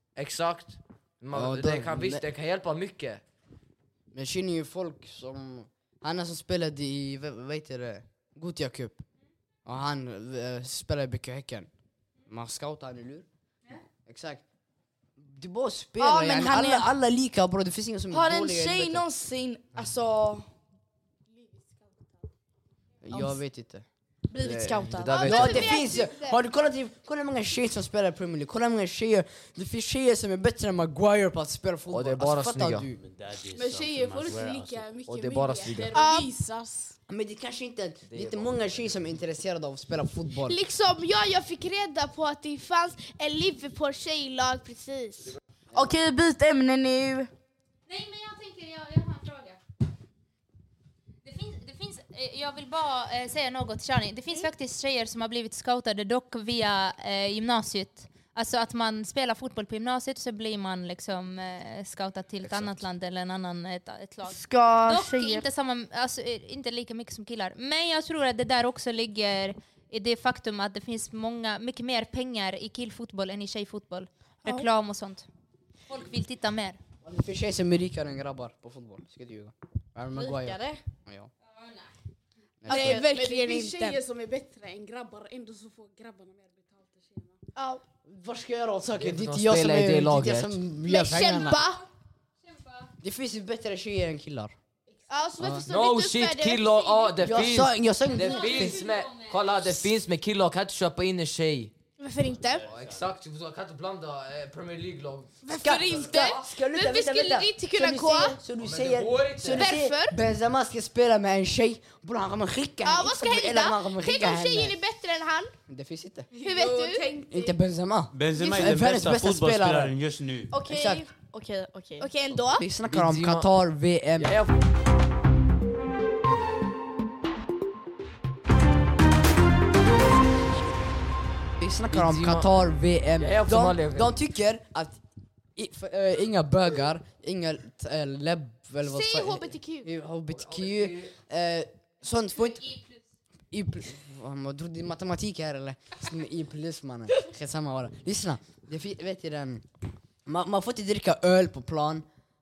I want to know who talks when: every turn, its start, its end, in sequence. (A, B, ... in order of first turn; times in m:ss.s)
0:00.2-0:03.2 A
0:01.3-0:02.2 B
0:04.1-0:09.0 B
0:09.6-0:11.7 B
0:12.3-0:13.2 B
0:14.0-0:14.4 B
0:15.2-0:19.0 B
0:16.0-0:16.9 C
0:18.1-0:20.5 C
0:21.3-0:22.1 D
0:23.0-0:23.8 B
0:23.1-0:23.4 C
0:24.3-0:25.6 C
0:24.4-0:25.8 A
0:25.1-0:26.4 E
0:25.2-0:33.0 B
0:31.9-0:32.9 A
0:32.9-0:34.9 F
0:33.5-0:37.0 D
0:35.0-0:35.9 A
0:35.9-0:36.3 E
0:37.1-0:40.6 B
0:38.0-0:38.9 A
0:40.4-0:45.4 E
0:45.7-0:47.3 C
0:47.9-0:49.6 G
0:51.2-1:15.3 G
1:04.4-1:05.4 E
1:04.5-1:04.8 C
1:15.9-1:16.8 G
1:17.0-1:21.3 B
1:20.1-1:20.8 C
1:21.6-1:21.9 G
1:22.6-1:23.0 B
1:22.7-1:24.0 E
1:22.7-1:23.1 C
1:22.9-1:27.4 D
1:27.6-1:27.8 E
1:28.0-1:31.6 B
1:29.0-1:30.6 A
1:30.8-1:31.8 E
1:32.4-1:32.9 G
1:33.0-1:34.5 B
1:35.1-1:37.2 E
1:35.4-1:35.6 B
1:35.6-1:41.7 A
1:37.2-1:38.8 B
1:38.0-1:39.4 G
1:42.0-1:42.6 E
1:42.3-1:43.1 F
1:42.7-1:46.2 A
1:45.4-1:48.4 E
1:45.6-1:54.8 B
1:48.6-1:49.7 A
1:49.5-1:50.2 E
1:52.8-1:55.5 E
1:55.7-1:56.3 B
1:56.3-1:57.6 D
1:56.4-1:57.1 E
1:57.3-1:59.9 B
1:58.1-2:00.5 F
2:00.5-2:02.1 C
2:00.7-2:01.0 B
2:02.0-2:02.6 E
2:02.5-2:04.4 B
2:02.9-2:03.4 A
2:04.2-2:04.5 A
2:11.6-2:15.0 B
2:11.9-2:12.5 A
2:13.2-2:14.1 A
2:15.6-2:22.7 B
2:18.8-2:19.9 E
2:20.3-2:21.1 A
2:22.6-2:23.0 G
2:23.5-2:29.6 B
2:30.2-2:32.0 B